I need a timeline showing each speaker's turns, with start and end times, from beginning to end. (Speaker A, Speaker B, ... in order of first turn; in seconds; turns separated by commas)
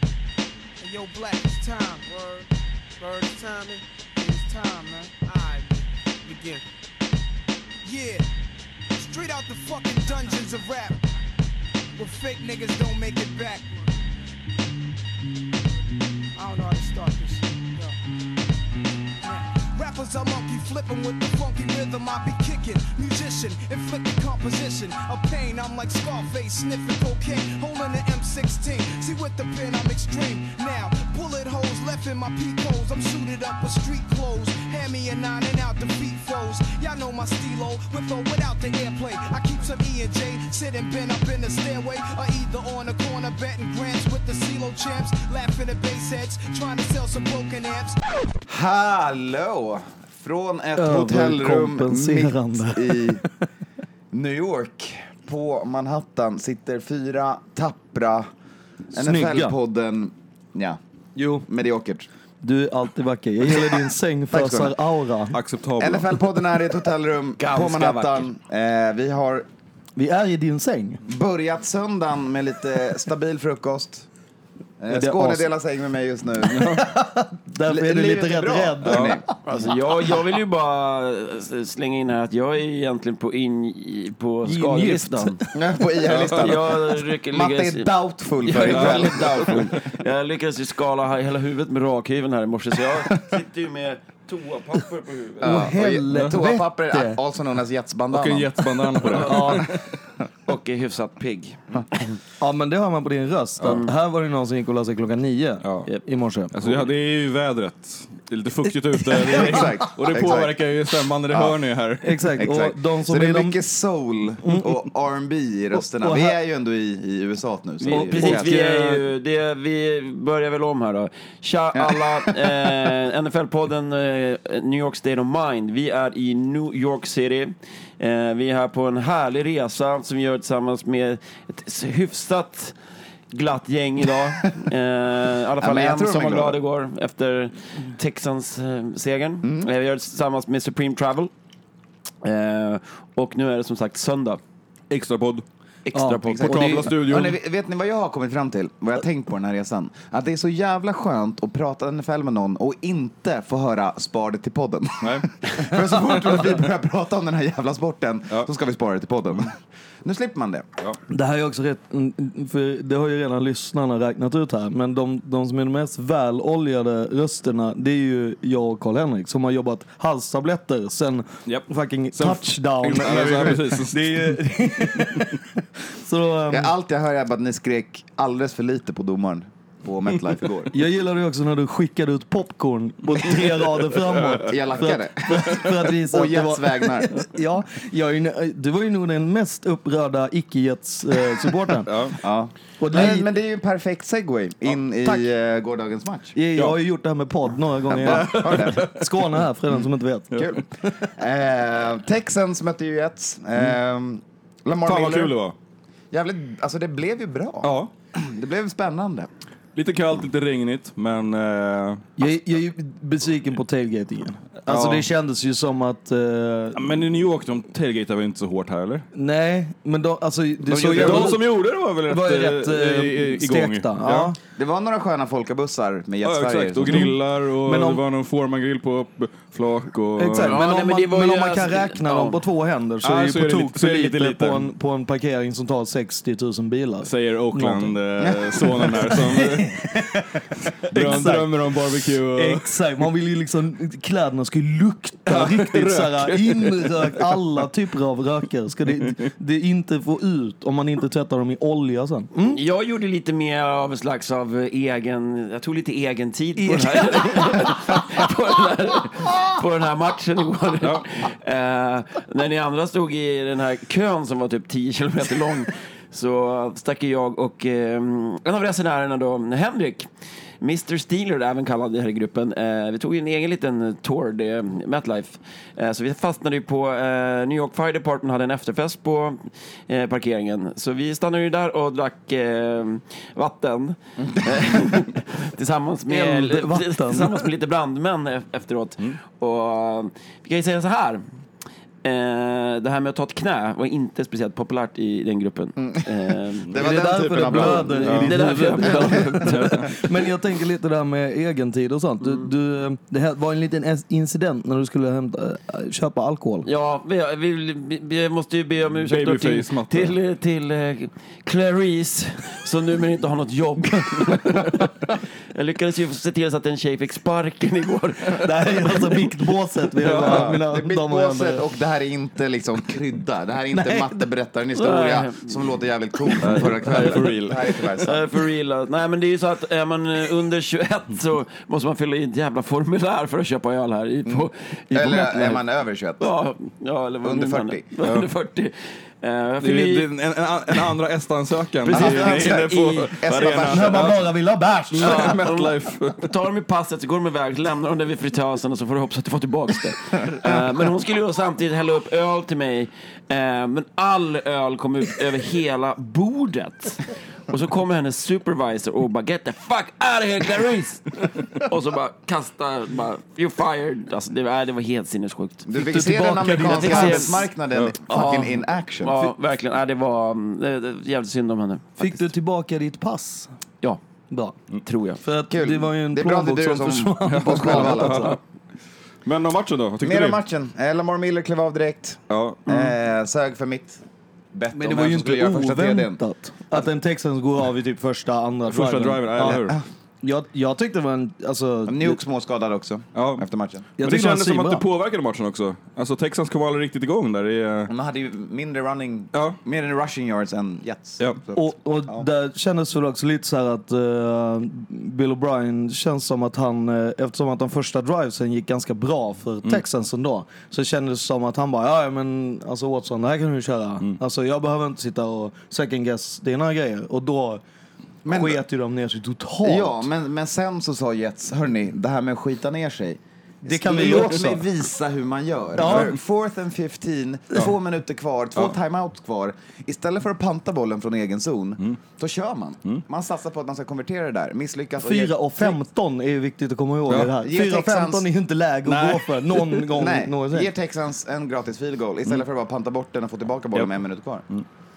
Speaker A: 0.8-6.6, Speaker A: 7.8-8.2, Speaker A: 8.9-11.0, Speaker A: 12.0-14.0, Speaker A: 16.4-18.0, Speaker A: 19.2-48.2, Speaker B: 48.5-53.2, Speaker C: 50.8-53.3, Speaker B: 54.1-58.3, Speaker B: 58.9-60.8, Speaker C: 58.9-59.5, Speaker C: 61.1-61.5, Speaker B: 61.5-62.1, Speaker C: 62.4-65.4, Speaker B: 63.5-64.8, Speaker D: 65.3-66.1, Speaker B: 65.8-69.5, Speaker E: 67.4-68.3, Speaker C: 70.0-71.0, Speaker B: 71.0-74.1, Speaker B: 74.8-76.9, Speaker C: 74.9-75.5, Speaker C: 76.4-79.3, Speaker B: 77.6-79.3, Speaker D: 78.8-79.1, Speaker E: 79.4-85.4, Speaker C: 84.4-85.5, Speaker B: 85.5-89.8, Speaker E: 86.1-95.7, Speaker D: 88.6-89.6, Speaker B: 95.4-98.6, Speaker C: 95.4-97.2, Speaker D: 98.1-99.9, Speaker C: 99.1-99.7, Speaker B: 99.2-99.5, Speaker E: 100.5-102.1, Speaker C: 102.4-106.8, Speaker D: 105.6-105.9, Speaker D: 106.5-112.3, Speaker B: 109.2-110.6, Speaker B: 111.3-111.6, Speaker C: 112.0-113.6, Speaker B: 112.4-118.6, Speaker C: 114.4-114.7, Speaker C: 115.8-116.3, Speaker E: 117.8-132.8, Speaker C: 117.9-119.0, Speaker B: 121.7-122.6, Speaker E: 133.3-141.3, Speaker B: 135.6-136.6, Speaker B: 139.4-139.7, Speaker E: 142.2-144.4, Speaker D: 144.9-145.4, Speaker E: 145.8-146.9, Speaker C: 145.9-146.2, Speaker B: 146.1-160.7, Speaker D: 146.4-147.4, Speaker D: 155.0-155.3, Speaker C: 161.1-176.7, Speaker D: 171.5-175.3, Speaker B: 176.5-180.7, Speaker C: 180.7-191.9, Speaker D: 184.1-184.4, Speaker B: 184.3-187.2, Speaker D: 191.8-192.2, Speaker B: 192.2-196.3, Speaker C: 192.8-193.3, Speaker C: 196.3-200.4, Speaker B: 197.9-198.9, Speaker D: 198.0-199.3, Speaker D: 200.3-200.6, Speaker B: 200.3-205.3, Speaker D: 204.8-205.5, Speaker B: 206.1-209.3, Speaker D: 207.6-207.9, Speaker D: 209.7-212.0, Speaker C: 212.2-217.0, Speaker D: 214.7-215.0, Speaker D: 216.8-219.1, Speaker C: 219.1-221.5, Speaker B: 220.7-221.4, Speaker D: 220.7-224.3, Speaker C: 222.1-224.4, Speaker B: 224.6-227.1, Speaker D: 226.2-230.6, Speaker C: 226.9-228.0, Speaker C: 230.2-238.0, Speaker E: 230.4-232.4, Speaker D: 233.0-234.6, Speaker D: 237.0-239.8, Speaker B: 238.2-238.6, Speaker C: 238.6-240.4, Speaker D: 240.8-242.7, Speaker C: 240.9-252.6, Speaker D: 245.3-247.4, Speaker E: 252.4-270.1, Speaker C: 256.6-258.0, Speaker E: 270.6-291.2, Speaker C: 286.1-287.4, Speaker E: 292.0-296.8, Speaker B: 295.8-298.3, Speaker C: 296.8-306.7, Speaker E: 297.4-300.1, Speaker D: 298.1-298.6, Speaker D: 299.5-299.9, Speaker E: 306.6-319.3, Speaker D: 308.9-310.1, Speaker C: 318.4-321.6, Speaker D: 320.0-320.5, Speaker B: 320.2-328.3, Speaker C: 323.7-324.2, Speaker E: 324.7-325.6, Speaker E: 326.3-327.0, Speaker D: 326.4-328.0, Speaker E: 327.9-335.6, Speaker B: 334.2-336.3, Speaker E: 336.2-340.1, Speaker B: 337.2-337.9, Speaker D: 339.6-344.2, Speaker E: 341.8-343.7, Speaker B: 341.9-344.2, Speaker C: 343.6-345.4, Speaker E: 344.9-365.7, Speaker D: 345.0-346.2, Speaker B: 365.6-369.1, Speaker C: 365.7-367.3, Speaker E: 366.6-367.5, Speaker E: 368.1-372.3, Speaker C: 372.0-373.5, Speaker C: 374.3-374.6, Speaker E: 374.7-375.2, Speaker C: 375.2-378.3, Speaker B: 375.5-378.4, Speaker D: 377.3-378.4, Speaker D: 379.2-380.4, Speaker B: 380.0-384.0, Speaker D: 382.3-382.9, Speaker B: 384.5-386.2, Speaker C: 384.7-389.7, Speaker D: 388.6-389.8, Speaker B: 389.4-389.8, Speaker C: 390.2-392.2, Speaker B: 391.9-393.9, Speaker D: 393.1-393.4, Speaker C: 394.0-394.8, Speaker D: 394.0-397.9, Speaker B: 397.9-402.3, Speaker C: 401.5-417.6, Speaker B: 418.2-418.6, Speaker C: 418.3-420.1, Speaker B: 419.6-435.8, Speaker C: 423.6-424.6, Speaker C: 425.8-426.1, Speaker D: 425.8-426.1, Speaker C: 435.0-440.7, Speaker B: 437.3-438.2, Speaker D: 438.9-439.9, Speaker B: 439.9-444.4